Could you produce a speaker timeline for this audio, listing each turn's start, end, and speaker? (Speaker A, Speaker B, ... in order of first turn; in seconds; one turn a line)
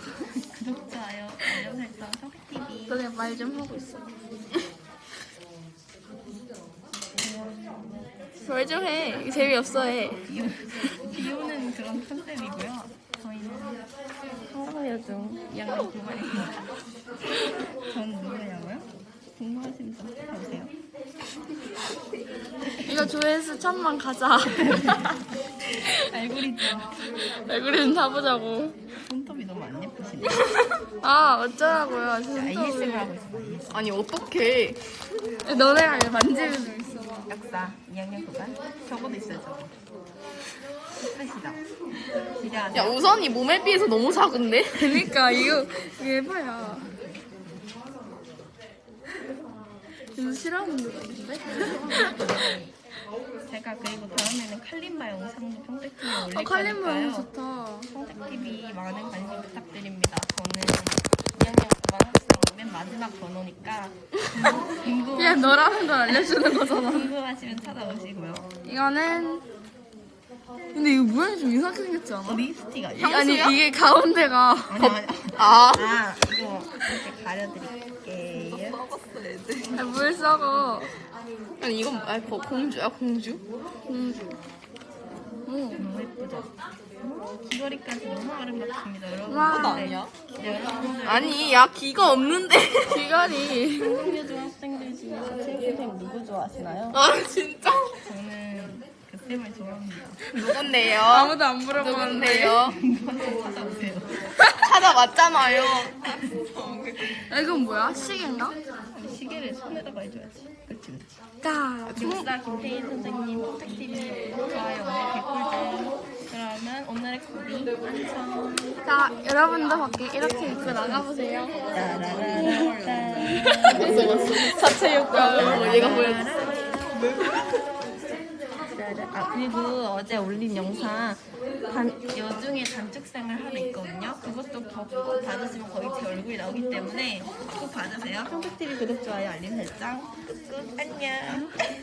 Speaker A: 0.4-3.0
Speaker B: 2.9-4.1
Speaker A: 7.2-7.8
Speaker B: 8.4-10.2
Speaker A: 10.3-13.8
Speaker A: 14.5-16.5
Speaker A: 17.9-18.9
Speaker A: 19.4-20.7
Speaker B: 22.8-25.2
Speaker A: 24.6-25.0
Speaker A: 26.0-26.9
Speaker B: 27.4-28.8
Speaker A: 29.1-30.4
Speaker B: 31.0-33.1
Speaker A: 32.3-33.8
Speaker C: 33.7-34.8
Speaker B: 35.4-37.3
Speaker A: 37.3-39.7
Speaker A: 41.0-41.6
Speaker A: 42.4-43.0
Speaker C: 42.7-45.1
Speaker B: 44.7-46.9
Speaker A: 46.6-47.5
Speaker B: 50.1-52.3
Speaker A: 51.6-52.7
Speaker A: 53.5-57.3
Speaker B: 56.2-57.9
Speaker A: 57.9-68.5
Speaker B: 65.1-67.1
Speaker B: 68.6-69.4
Speaker B: 70.7-72.5
Speaker A: 72.2-73.2
Speaker C: 73.0-73.6
Speaker B: 73.0-75.0
Speaker A: 74.7-78.8
Speaker C: 75.3-75.9
Speaker C: 78.5-79.8
Speaker B: 79.7-80.9
Speaker C: 81.6-83.4
Speaker B: 83.9-84.3
Speaker B: 85.5-85.8
Speaker A: 85.8-86.5
Speaker A: 87.0-91.4
Speaker B: 89.3-90.0
Speaker C: 89.5-90.1
Speaker C: 91.0-93.1
Speaker B: 92.9-94.0
Speaker A: 93.2-97.0
Speaker C: 96.9-98.0
Speaker A: 97.9-100.2
Speaker C: 100.3-102.7
Speaker B: 100.8-102.7
Speaker A: 102.6-104.3
Speaker C: 104.6-106.0
Speaker C: 106.6-106.9
Speaker B: 107.3-108.6
Speaker A: 108.9-111.1
Speaker B: 111.4-112.2
Speaker C: 111.9-112.2
Speaker A: 111.9-118.8
Speaker B: 118.8-126.2
Speaker A: 120.4-121.0
Speaker A: 121.7-124.2
Speaker C: 123.6-126.3
Speaker A: 125.2-126.9
Speaker A: 128.8-141.5
Speaker B: 141.3-141.5